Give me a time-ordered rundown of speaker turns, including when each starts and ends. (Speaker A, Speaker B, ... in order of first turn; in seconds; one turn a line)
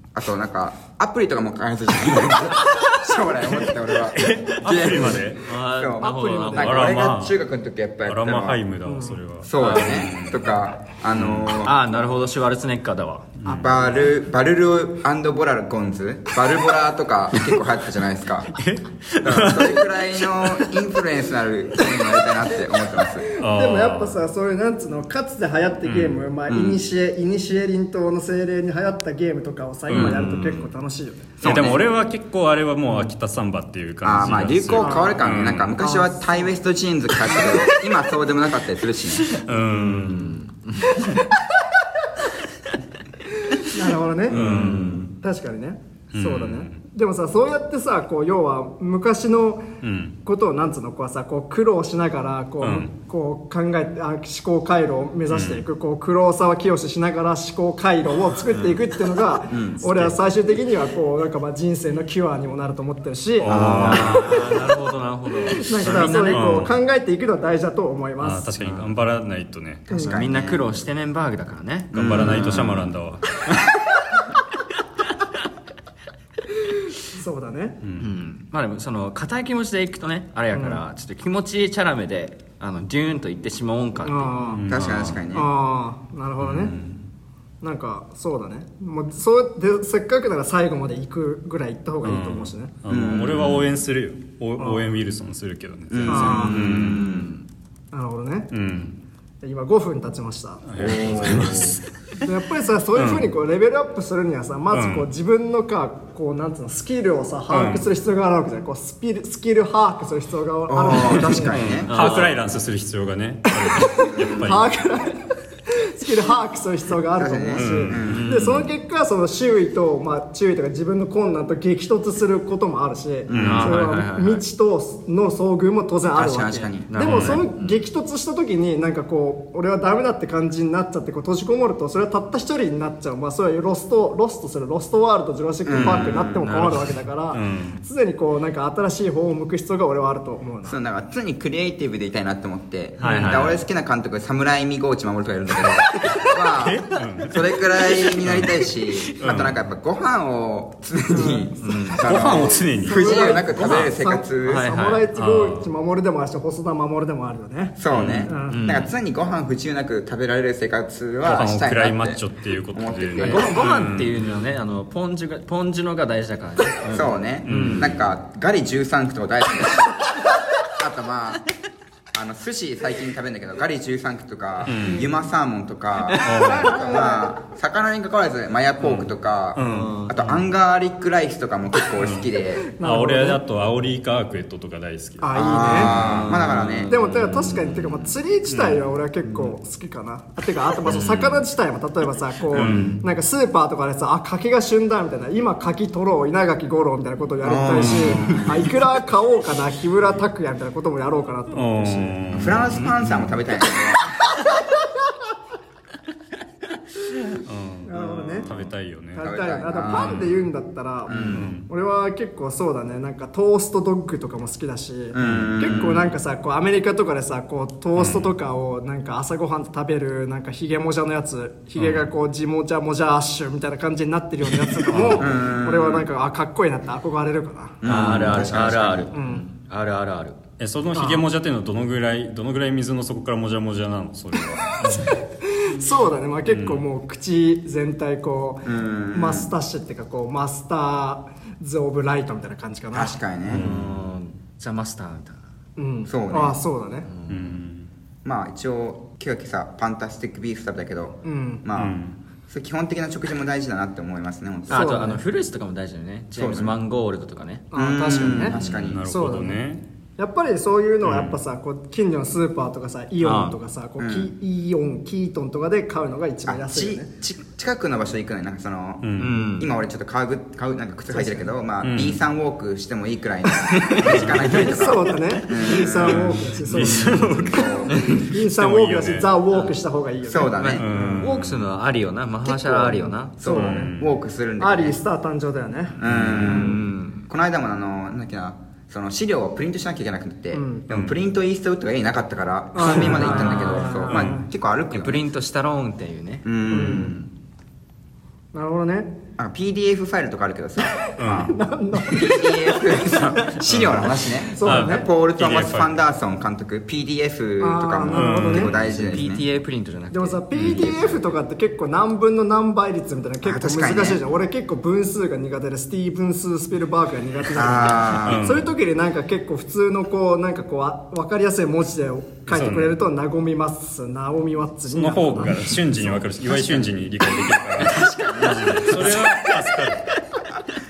Speaker A: 0.1-8.6
Speaker B: 4.1-7.0
Speaker C: 4.3-5.5
Speaker D: 6.0-6.8
Speaker C: 6.6-7.3
Speaker C: 8.1-10.5
Speaker D: 8.8-9.2
Speaker A: 9.4-11.8
Speaker B: 9.6-10.1
Speaker C: 11.1-11.6
Speaker B: 11.6-13.3
Speaker C: 13.4-13.8
Speaker A: 13.4-18.6
Speaker C: 18.5-20.7
Speaker A: 19.2-23.3
Speaker C: 23.4-24.2
Speaker D: 23.4-31.4
Speaker C: 25.8-26.2
Speaker A: 26.5-26.8
Speaker C: 29.9-30.7
Speaker A: 29.9-30.2
Speaker A: 31.4-31.9
Speaker C: 31.4-35.8
Speaker A: 34.0-39.3
Speaker D: 34.8-35.2
Speaker D: 35.8-36.6
Speaker C: 39.4-40.3
Speaker B: 39.5-41.1
Speaker D: 40.9-41.3
Speaker D: 43.5-49.7
Speaker B: 44.3-45.1
Speaker C: 44.3-45.1
Speaker C: 46.1-46.8
Speaker C: 49.8-50.2
Speaker D: 50.2-64.6
Speaker C: 52.6-52.9
Speaker C: 55.3-55.6
Speaker A: 59.5-60.0
Speaker C: 63.4-64.5
Speaker B: 63.4-66.7
Speaker A: 63.7-64.0
Speaker D: 65.5-68.5
Speaker C: 65.8-66.7
Speaker C: 68.2-70.1
Speaker B: 68.6-68.9
Speaker D: 69.9-70.2
Speaker B: 70.0-72.9
Speaker A: 70.1-70.6
Speaker A: 71.9-72.8
Speaker C: 71.9-73.7
Speaker D: 77.0-77.8
Speaker C: 77.8-78.1
Speaker B: 78.0-84.3
Speaker D: 80.5-80.8
Speaker D: 84.0-84.6
Speaker C: 84.5-85.2
Speaker A: 84.7-85.5
Speaker D: 85.3-86.7
Speaker C: 86.4-87.0
Speaker D: 87.6-92.7
Speaker C: 92.0-97.1
Speaker A: 92.9-93.7
Speaker D: 94.6-94.8
Speaker A: 95.9-97.3
Speaker D: 96.1-96.5
Speaker B: 96.5-97.4
Speaker D: 97.9-98.5
Speaker C: 98.5-99.0
Speaker D: 99.4-100.6
Speaker C: 100.7-102.3
Speaker A: 100.8-101.8
Speaker B: 101.2-101.6
Speaker D: 102.2-111.6
Speaker C: 103.0-103.3
Speaker C: 104.7-105.1
Speaker C: 107.5-107.8
Speaker A: 110.7-112.0
Speaker C: 111.1-114.7
Speaker B: 111.8-112.4
Speaker D: 113.6-140.8
Speaker A: 114.0-114.5
Speaker A: 117.2-118.3
Speaker C: 117.5-118.2
Speaker B: 118.0-118.7
Speaker A: 123.3-123.7
Speaker C: 123.3-123.8
Speaker B: 123.3-124.4
Speaker A: 126.1-126.9
Speaker B: 126.9-127.8
Speaker C: 127.0-127.4
Speaker A: 135.6-136.4
Speaker B: 136.3-136.9
Speaker C: 137.3-137.8
Speaker A: 140.6-154.7
Speaker B: 143.0-143.6
Speaker C: 143.0-143.6
Speaker C: 146.5-147.4
Speaker B: 147.9-148.2
Speaker C: 148.2-148.6
Speaker B: 149.0-149.4
Speaker C: 149.2-149.5
Speaker D: 151.1-151.6
Speaker B: 151.6-152.2
Speaker C: 152.0-153.4
Speaker D: 152.3-158.6
Speaker B: 154.4-155.1
Speaker C: 155.1-155.7
Speaker A: 157.8-163.5
Speaker C: 157.9-158.3
Speaker B: 158.5-158.9
Speaker C: 161.2-164.2
Speaker B: 163.2-167.9
Speaker A: 166.9-171.4
Speaker C: 167.4-168.0
Speaker A: 172.1-182.7
Speaker C: 174.7-175.1
Speaker B: 176.0-176.7
Speaker C: 176.2-176.8
Speaker D: 176.5-177.3
Speaker C: 179.6-180.3
Speaker B: 179.6-180.3
Speaker C: 182.0-182.3
Speaker D: 182.6-183.4
Speaker C: 182.8-186.2
Speaker D: 185.2-185.9
Speaker A: 185.3-186.9
Speaker B: 185.7-188.2
Speaker D: 186.9-202.2
Speaker C: 188.5-188.8
Speaker B: 190.8-191.4
Speaker C: 192.5-193.0
Speaker B: 192.5-193.0
Speaker A: 197.4-198.7
Speaker C: 197.7-198.4
Speaker C: 201.5-203.3
Speaker A: 202.3-204.2
Speaker B: 202.7-203.0
Speaker D: 204.4-204.8
Speaker C: 207.4-209.3
Speaker D: 207.8-208.5
Speaker A: 208.0-210.3
Speaker D: 209.1-227.8
Speaker C: 209.8-210.4
Speaker A: 211.1-211.5
Speaker B: 211.1-211.5
Speaker C: 211.3-211.7
Speaker A: 215.1-216.1
Speaker C: 215.2-215.8
Speaker C: 217.9-218.3
Speaker C: 221.8-222.1
Speaker C: 224.8-225.3
Speaker A: 225.1-226.1
Speaker A: 227.8-229.1
Speaker B: 227.8-230.4
Speaker C: 227.9-228.6
Speaker D: 229.1-229.4
Speaker C: 230.6-235.1
Speaker D: 230.9-231.2
Speaker D: 234.7-243.2
Speaker C: 236.4-236.8
Speaker A: 238.6-239.5
Speaker A: 242.9-243.7
Speaker C: 243.5-244.0
Speaker B: 243.5-245.4
Speaker D: 245.8-247.1
Speaker A: 246.1-246.6
Speaker B: 247.1-247.6
Speaker C: 247.3-247.9
Speaker A: 248.2-254.9
Speaker D: 251.2-251.6
Speaker C: 251.7-252.2
Speaker B: 254.7-257.6
Speaker D: 254.7-255.2
Speaker A: 256.3-256.8
Speaker D: 257.7-259.6
Speaker A: 257.7-259.1
Speaker B: 258.5-258.9
Speaker C: 258.8-259.8
Speaker D: 260.2-267.1
Speaker C: 261.0-261.4
Speaker B: 263.2-263.6
Speaker A: 264.0-264.3
Speaker A: 266.4-278.1
Speaker C: 269.0-269.4
Speaker B: 269.2-269.7
Speaker D: 271.1-271.5
Speaker C: 271.8-272.2
Speaker B: 273.8-274.4
Speaker C: 274.0-274.7
Speaker D: 274.5-281.3
Speaker C: 276.0-279.3
Speaker A: 280.2-280.8
Speaker B: 280.5-283.4
Speaker C: 280.8-281.7
Speaker D: 282.4-283.9
Speaker A: 283.4-285.0
Speaker C: 283.4-284.1
Speaker D: 284.6-286.8
Speaker A: 286.0-295.2
Speaker C: 286.1-286.7
Speaker B: 286.1-287.2
Speaker D: 290.5-290.9
Speaker C: 290.9-291.2
Speaker D: 292.7-294.5
Speaker B: 292.9-294.0
Speaker C: 294.1-294.4
Speaker B: 294.9-296.4
Speaker A: 296.4-297.3
Speaker D: 296.7-297.2
Speaker D: 298.5-299.1
Speaker A: 299.4-309.4
Speaker D: 300.9-303.3
Speaker C: 301.2-301.5
Speaker C: 303.6-305.9
Speaker D: 304.5-305.1
Speaker D: 307.6-308.7
Speaker C: 308.1-308.7
Speaker B: 308.7-311.3
Speaker D: 310.1-326.8
Speaker A: 313.4-314.2
Speaker A: 317.5-318.5
Speaker C: 318.2-318.7
Speaker C: 322.5-323.0
Speaker C: 324.9-330.1
Speaker A: 327.8-329.3